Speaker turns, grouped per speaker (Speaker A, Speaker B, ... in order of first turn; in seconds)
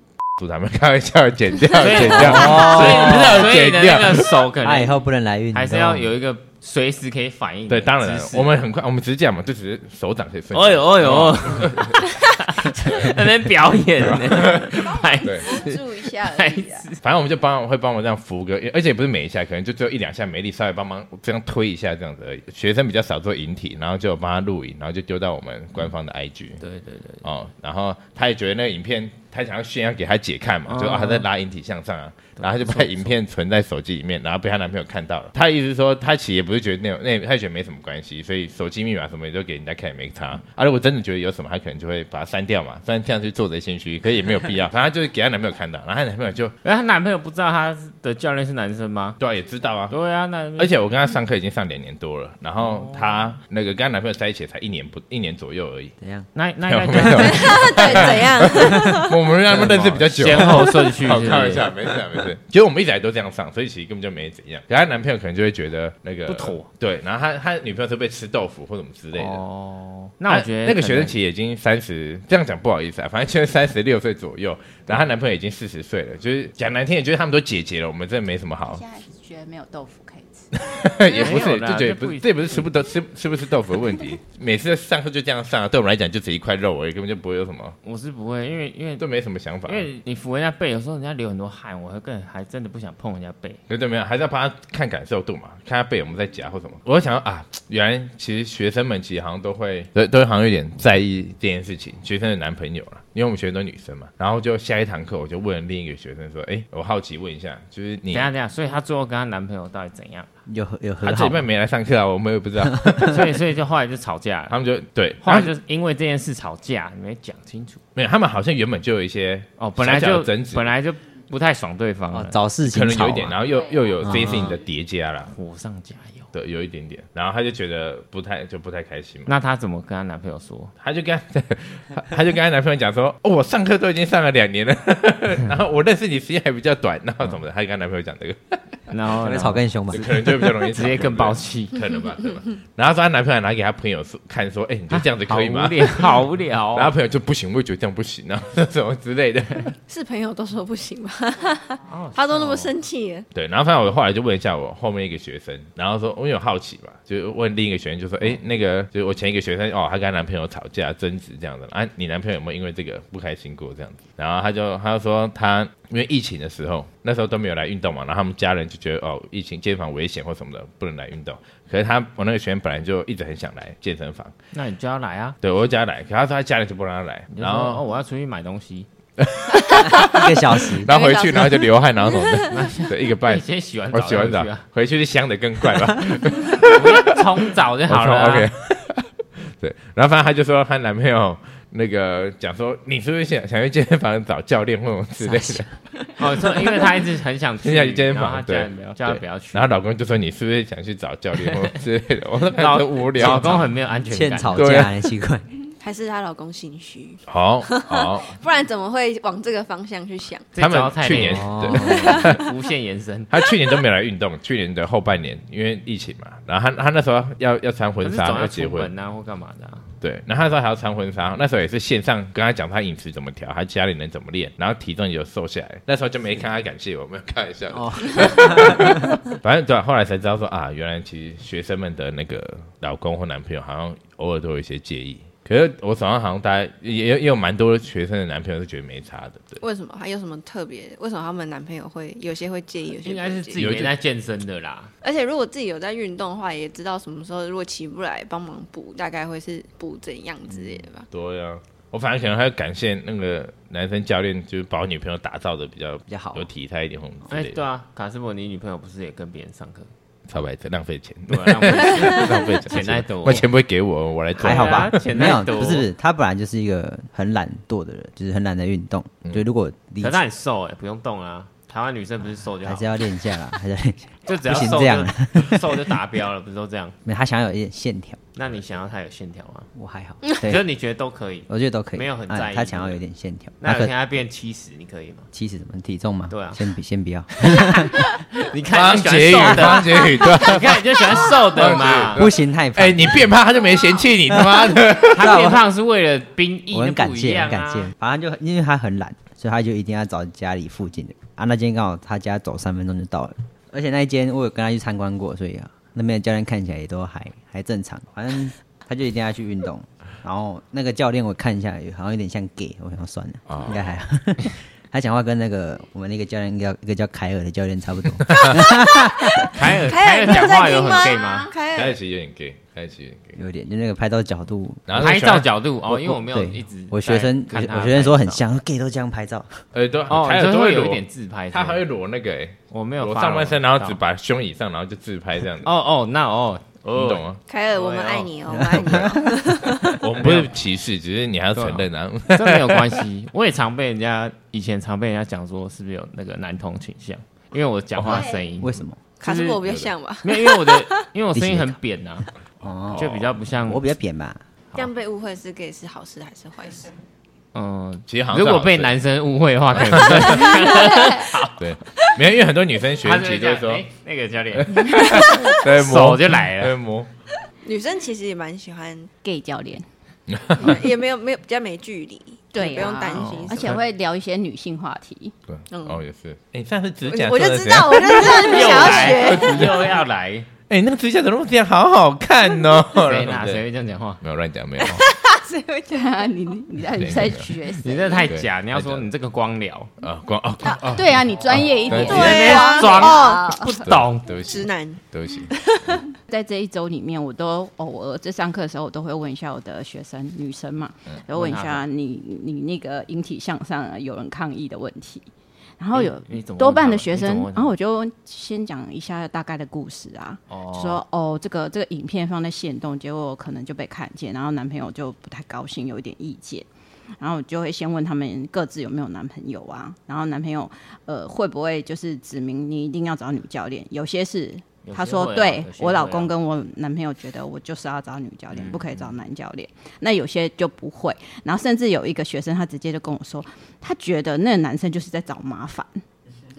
Speaker A: 0.4-4.3, 7.7-12.0, 12.8-13.1, 14.0-14.7, 15.2-15.5, 17.0-26.6, 27.2-46.5, 49.2-49.9, 50.6-55.9, 56.7-69.4, 70.3-78.8, 80.5-87.8, 89.0-89.9, 93.7-108.3, 111.0-113.3, 114.5-115.5, 118.0-120.7, 122.7-125.3, 126.3-129.3, 130.8-138.6, 139.9-146.2, 146.7-149.7, 153.3-174.3, 175.4-177.8, 179.2-187.0, 187.9-189.1, 189.6-195.7, 197.6-203.7, 204.5-205.0, 207.3-208.3, 210.6-212.4, 213.3-218.9, 220.0-239.6, 243.6-243.9, 251.1-257.6, 260.3-265.3, 288.7-295.5, 313.5-313.8, 318.3-318.5, 321.7-323.4, 324.9-325.5, 329.7-335.7, 336.9-337.4, 340.0-343.0, 347.9-348.3, 349.6-349.9, 358.1-358.9, 359.7-360.6, 361.6-363.8, 364.6-367.1, 370.3-370.8, 375.5-379.9, 380.7-383.6, 384.2-385.0, 386.9-387.5, 388.3-389.1, 390.0-392.4, 393.9-396.0
Speaker B: 1.7-5.0, 5.5-8.5, 10.5-17.0, 26.6-27.2, 30.7-31.2, 32.4-33.1, 46.6-49.2, 49.9-50.7, 52.6-53.3, 56.3-58.1, 59.5-61.7, 66.3-66.7, 69.1-71.2, 81.1-82.7, 87.8-89.0, 89.7-93.6, 108.1-110.3, 113.1-114.6, 115.2-117.8, 119.6-122.4, 124.1-124.6, 125.3-126.3, 129.2-130.7, 138.9-141.8, 144.9-146.9, 151.9-152.8, 174.5-175.4, 177.3-178.9, 182.5-184.6, 186.6-188.5, 196.2-199.7, 201.4-201.7, 202.5-204.6, 210.5-213.3, 218.0-219.9, 243.0-244.9, 257.3-259.9, 261.3-263.5, 264.4-265.9, 270.0-273.0, 274.2-277.0, 278.3-279.7, 280.3-283.0, 283.6-285.3, 286.3-286.7, 287.4-292.3, 295.1-297.9, 319.5-321.5, 325.0-328.4, 330.1-331.8, 332.7-334.0, 335.6-339.2, 340.2-340.5, 341.5-349.6, 350.2-352.3, 352.9-353.9, 357.5-361.6, 363.0-366.8, 373.1-373.8, 378.0-380.5, 382.9-384.2, 387.8-389.9, 391.4-394.3, 401.3-401.9, 405.9-407.8, 410.5-411.0, 424.8-426.3, 428.5-429.1
Speaker C: 2.1-3.5, 4.6-6.1, 56.0-56.3, 58.5-58.9, 59.5-60.7, 110.5-111.5, 112.6-113.1, 122.1-123.4, 124.0-124.5, 139.2-140.4, 179.8-180.9, 195.2-195.7, 204.1-205.4, 211.2-212.2, 227.7-229.2, 256.1-256.5, 264.4-270.2, 272.6-275.9, 277.0-278.2, 279.7-280.6, 281.5-283.9, 285.3-288.1, 289.4-290.0, 292.1-293.4, 294.3-295.6, 296.7-319.6, 323.3-325.1, 325.9-329.6, 338.5-339.2, 348.6-349.0, 351.3-351.8, 352.6-354.4
Speaker D: 14.7-16.9, 57.2-59.2, 149.9-153.3, 179.7-180.2, 180.8-182.5, 205.8-210.5, 211.7-212.4, 239.6-243.6, 245.0-251.1, 319.4-321.9, 337.5-340.0, 349.2-350.9, 354.7-356.8, 365.1-365.3, 367.6-369.1, 370.6-373.8, 375.7-376.0, 377.1-379.7, 384.8-386.5, 391.9-393.5, 394.4-396.0
Speaker E: 78.6-80.5, 321.2-321.5, 360.7-361.2, 369.2-369.9, 372.5-375.3, 385.9-388.3, 390.7-393.9, 396.2-416.7, 417.2-436.0